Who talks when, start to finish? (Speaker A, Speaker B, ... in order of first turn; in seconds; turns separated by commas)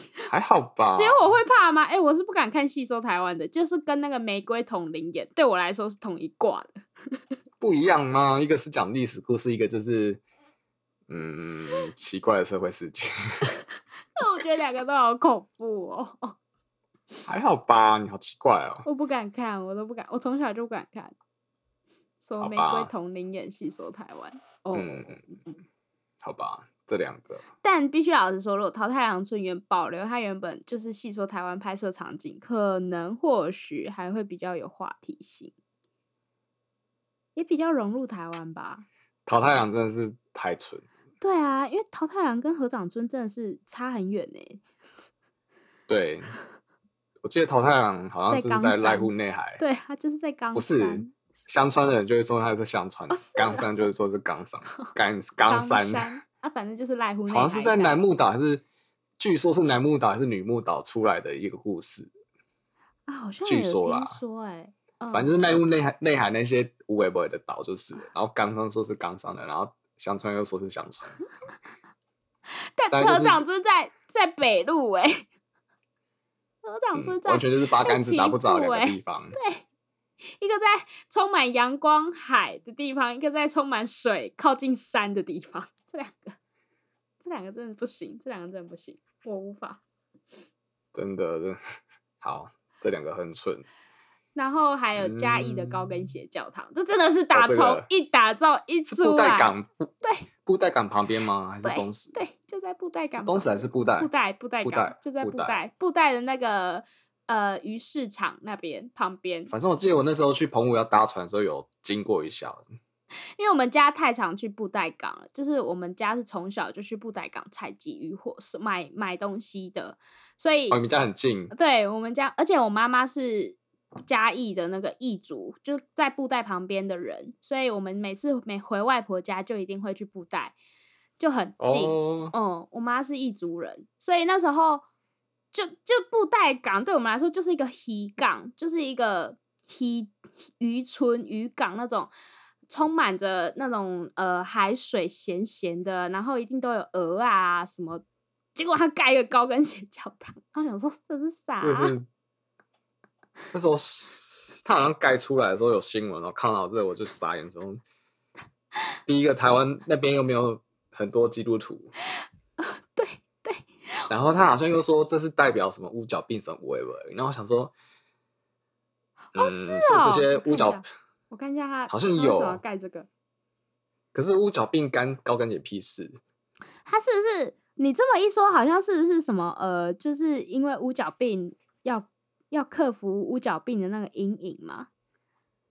Speaker A: 0.3-1.2, Speaker B: 0.9-6.8, Speaker A: 7.6-10.2, Speaker A: 11.1-13.5, Speaker B: 14.2-16.4, Speaker A: 17.2-18.9, Speaker B: 18.8-21.1, Speaker B: 22.2-25.4, Speaker A: 22.4-22.9, Speaker A: 24.7-25.2, Speaker A: 26.2-27.4, Speaker B: 27.6-35.5, Speaker B: 37.3-38.8, Speaker A: 39.2-40.8, Speaker B: 41.2-44.6, Speaker A: 45.9-46.3, Speaker A: 47.2-49.6, Speaker B: 48.3-51.1, Speaker A: 50.5-56.2, Speaker B: 53.1-53.7, Speaker B: 55.5-58.0, Speaker A: 57.3-58.6, Speaker A: 59.2-62.1, Speaker B: 63.1-65.3, Speaker A: 63.5-64.2, Speaker A: 65.1-71.2, Speaker B: 72.8-75.2, Speaker A: 72.9-73.4, Speaker B: 76.6-79.6, Speaker A: 77.0-79.3, Speaker B: 80.2-86.3, Speaker B: 87.2-89.8, Speaker A: 90.9-91.6, Speaker A: 92.2-93.7, Speaker B: 94.3-100.3, Speaker A: 95.0-96.1, Speaker A: 97.3-97.8, Speaker A: 98.9-99.9, Speaker A: 100.4-102.2, Speaker B: 101.6-109.5, Speaker A: 103.1-104.1, Speaker A: 104.6-105.6, Speaker A: 109.5-112.6, Speaker B: 113.4-120.8, Speaker A: 120.7-121.5, Speaker B: 121.5-130.5, Speaker B: 131.2-134.8, Speaker A: 131.6-132.3, Speaker B: 135.5-142.1, Speaker B: 142.7-148.0, Speaker B: 148.5-151.9, Speaker A: 151.6-152.1, Speaker A: 153.5-157.8, Speaker A: 159.1-161.9, Speaker B: 162.6-163.7, Speaker A: 164.1-167.7, Speaker B: 169.3-173.1, Speaker A: 169.3-170.8, Speaker A: 171.9-172.6, Speaker A: 174.1-176.2, Speaker B: 176.8-184.9